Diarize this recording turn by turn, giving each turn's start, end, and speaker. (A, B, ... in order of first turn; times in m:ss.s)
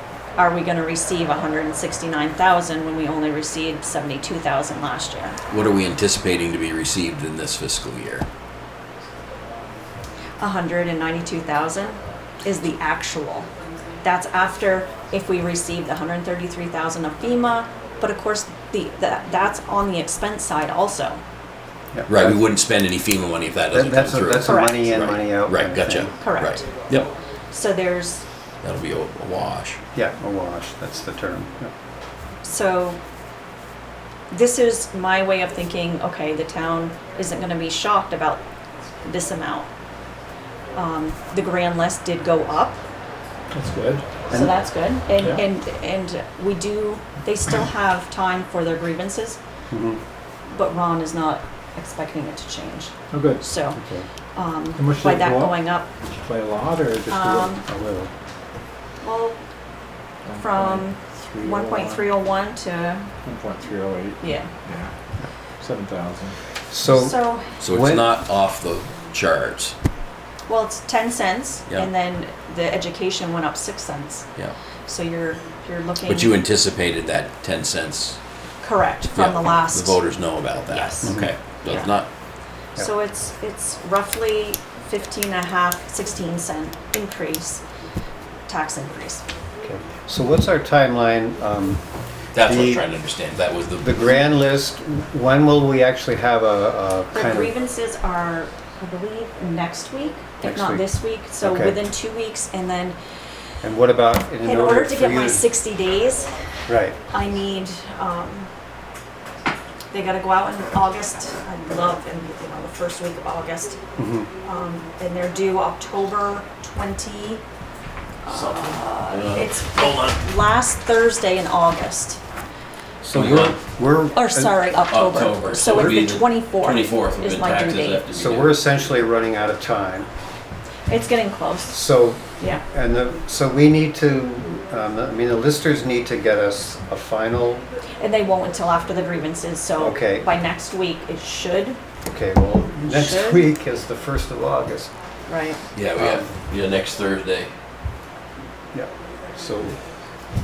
0:00.4-0:05.4 A
0:05.5-0:08.3 B
0:10.4-0:13.5 A
0:14.0-0:21.2 A
0:21.9-0:22.4 C
0:22.1-0:27.1 B
0:23.7-0:26.1 C
0:24.4-0:24.9 A
0:26.2-0:26.7 A
0:27.5-0:28.2 A
0:28.6-0:29.8 B
0:29.9-0:31.7 C
0:32.4-0:33.0 A
0:34.3-0:38.4 A
0:39.0-0:39.7 A
0:40.7-0:42.8 A
0:43.5-0:44.2 D
0:44.3-0:44.6 C
0:44.3-0:49.4 A
0:45.2-0:45.4 D
0:49.7-0:50.0 C
0:50.5-0:53.8 A
0:53.1-0:53.4 D
0:53.7-0:54.1 C
0:54.3-0:55.9 A
0:54.7-0:57.5 D
0:57.1-0:57.6 A
0:57.6-0:58.1 C
0:59.0-0:59.4 A
1:00.2-1:02.1 D
1:00.4-1:03.1 A
1:03.2-1:04.9 D
1:04.2-1:04.5 A
1:05.6-1:06.4 D
1:06.7-1:08.1 C
1:06.8-1:07.5 A
1:07.6-1:09.7 B
1:10.5-1:14.3 A
1:14.8-1:16.4 A
1:16.0-1:18.2 B
1:18.6-1:20.0 A
1:19.1-1:22.1 B
1:20.7-1:21.9 A
1:21.0-1:21.3 C
1:22.8-1:27.6 A
1:28.5-1:29.2 A
1:29.6-1:31.8 C
1:32.3-1:34.0 B
1:32.4-1:32.8 C
1:33.8-1:37.5 C
1:37.1-1:43.0 A
1:40.4-1:41.8 C
1:43.6-1:45.5 C
1:44.4-1:46.3 A
1:46.7-1:47.0 C
1:47.1-1:48.5 A
1:49.9-1:53.8 A
1:54.0-1:54.3 C
1:54.4-1:57.4 A
1:58.2-2:02.2 A
1:58.3-2:00.2 B
2:03.0-2:04.6 C
2:03.1-2:03.6 B
2:04.1-2:08.0 A
2:04.9-2:08.7 B
2:08.1-2:10.1 C
2:10.9-2:12.6 A
2:11.7-2:17.6 C
2:18.0-2:21.8 A
2:19.8-2:20.3 C
2:22.0-2:24.9 C
2:22.8-2:23.5 A
2:25.3-2:25.6 A
2:25.7-2:27.5 B
2:26.0-2:26.3 C
2:28.7-2:29.8 C